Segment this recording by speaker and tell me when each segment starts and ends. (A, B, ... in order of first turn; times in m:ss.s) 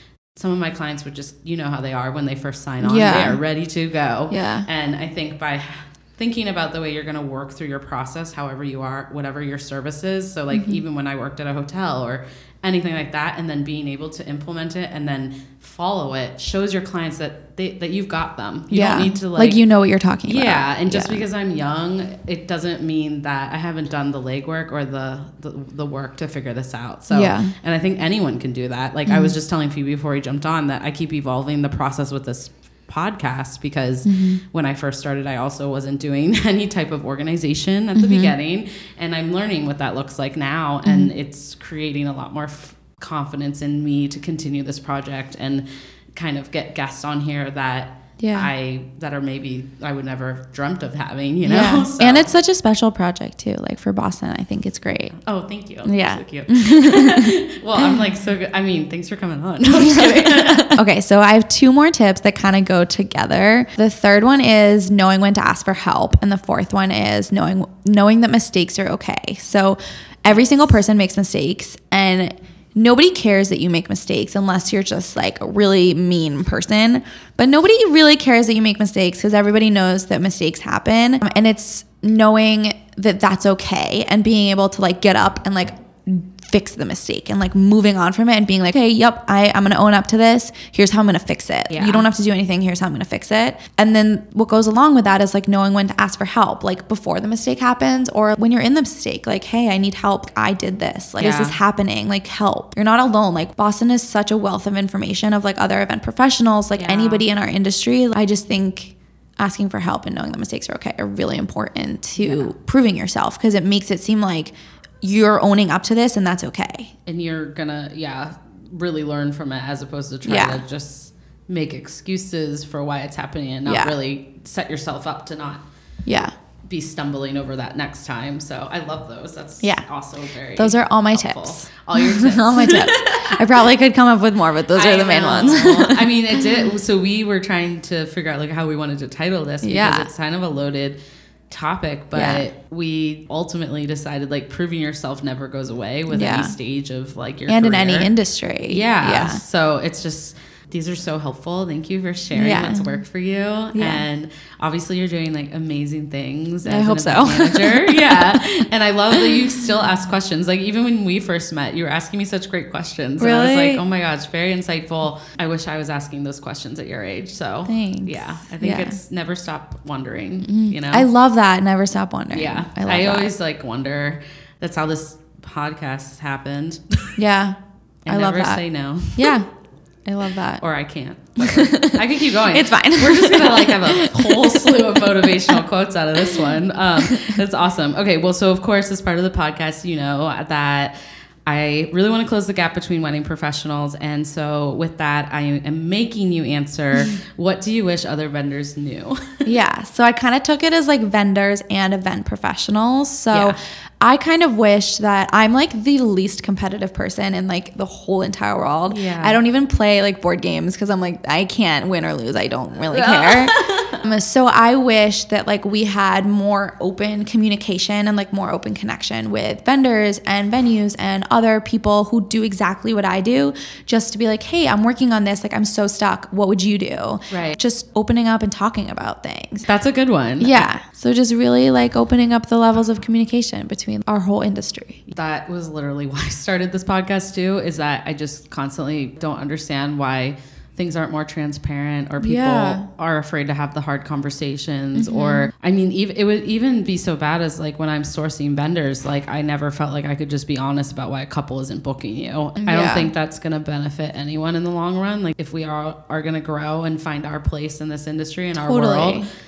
0:00.3-0:19.6 A
0:02.8-0:03.4 B
0:04.3-0:04.7 B
0:10.5-0:10.8 B
0:18.7-0:21.2 B
0:20.2-0:52.3 A
0:27.1-0:27.5 B
0:29.1-0:29.3 B
0:34.0-0:34.4 B
0:38.0-0:38.3 B
0:40.8-0:41.1 B
0:48.2-0:48.5 B
0:51.4-0:55.2 B
0:55.2-1:00.8 A
0:55.8-0:58.1 B
0:59.7-1:56.9 B
1:10.3-1:10.8 A
1:31.7-1:32.1 A
1:41.2-1:41.6 A
1:46.8-1:47.2 A
1:52.2-1:52.5 A
1:57.1-2:05.6 A
2:00.2-2:00.6 B
2:03.7-2:04.0 B
2:06.0-2:06.3 B
2:06.6-2:13.4 A
2:10.6-2:16.4 B
2:14.7-2:21.0 A
2:19.6-2:20.1 B
2:21.5-2:28.1 A
2:22.1-2:22.4 B
2:26.1-2:26.5 B
2:27.5-2:29.4 B
2:28.7-2:51.1 A
2:32.4-2:33.0 B
2:33.8-2:34.0 B
2:36.6-2:38.6 B
2:39.2-2:39.6 B
2:43.2-2:43.8 B
2:47.7-2:49.0 B
2:50.4-2:53.3 B
2:52.3-2:57.2 A
2:57.2-2:58.6 B
2:58.1-2:59.4 A
2:59.2-2:59.5 B
3:00.1-3:00.6 B
3:00.6-3:19.5 A
3:01.4-3:05.6 B
3:07.1-3:07.4 B
3:19.5-3:49.7 B
3:23.3-3:23.6 A
3:28.9-3:29.4 A
3:32.9-3:34.0 A
3:47.3-3:47.6 A
3:49.7-3:50.7 A
3:50.4-3:55.0 B
3:55.1-4:19.3 A
4:02.2-4:02.9 B
4:04.9-4:05.5 B
4:12.6-4:13.1 B
4:18.6-4:19.3 B